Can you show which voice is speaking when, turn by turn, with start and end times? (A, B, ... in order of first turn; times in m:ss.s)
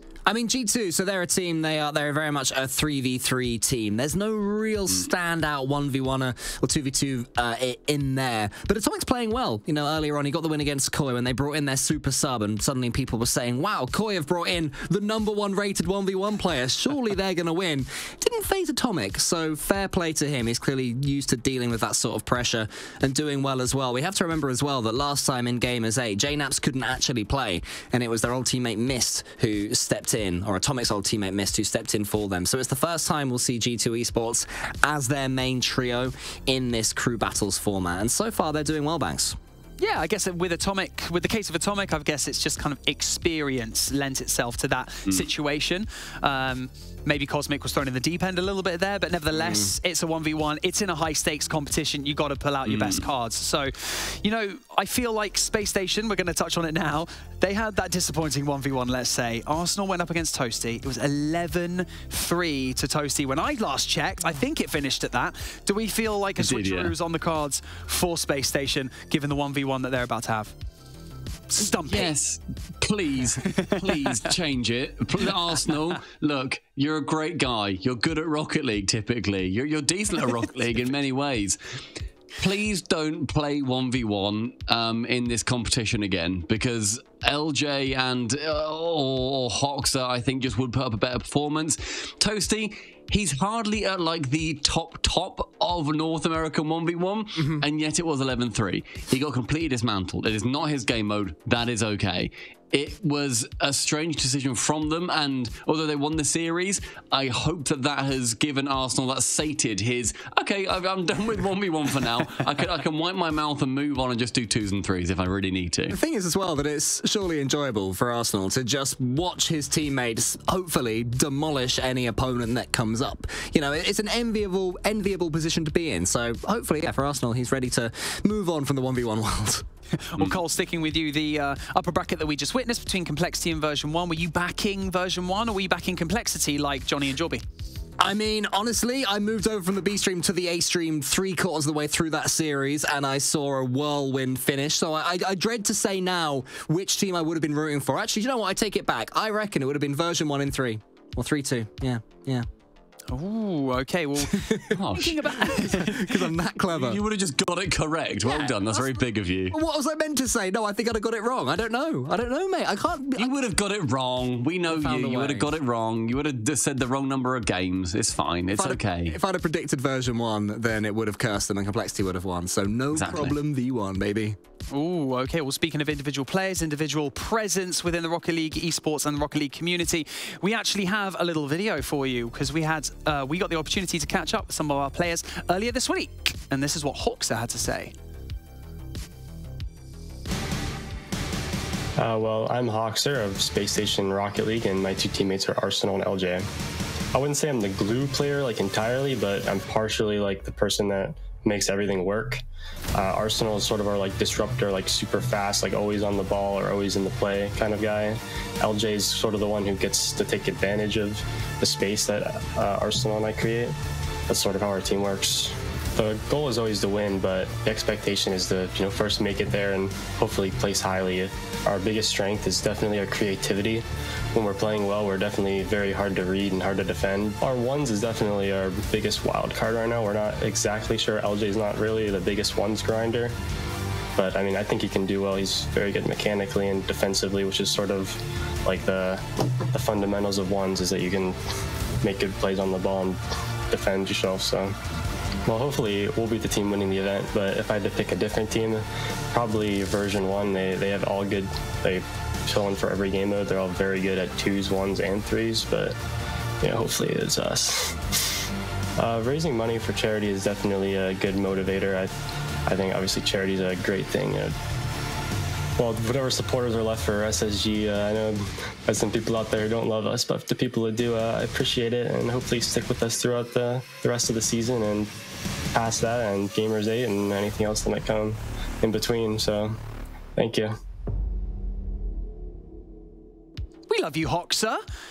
0:00.2-0:39.4 A
0:39.8-1:10.5 B
0:52.6-0:53.1 C
1:06.4-1:06.9 C
1:11.5-1:12.1 B
1:11.8-1:21.6 C
1:13.7-1:14.3 B
1:22.4-1:56.0 C
1:37.4-1:37.6 A
1:55.9-2:09.6 A
2:10.0-2:17.4 B
2:18.0-2:32.5 A
2:33.1-2:36.2 B
2:34.8-2:35.7 C
2:35.5-2:37.0 A
2:36.7-2:39.6 C
2:38.2-2:38.9 A
2:39.5-2:43.3 A
2:43.2-2:49.2 C
2:44.6-2:45.6 A
2:48.5-2:54.4 A
2:52.9-2:53.4 C
2:54.7-3:07.9 B
3:12.0-3:16.5 D
3:17.1-3:22.4 D
3:22.9-3:33.8 D
3:34.3-3:53.3 D
3:54.2-4:01.4 D
4:02.0-4:04.8 D
4:05.5-4:16.0 D
4:16.6-4:18.0 D
4:19.0-4:22.1 D
4:22.6-4:24.5 D
4:25.8-4:35.1 D
4:35.7-4:39.8 D
4:40.4-4:40.8 D
4:43.9-4:44.8 B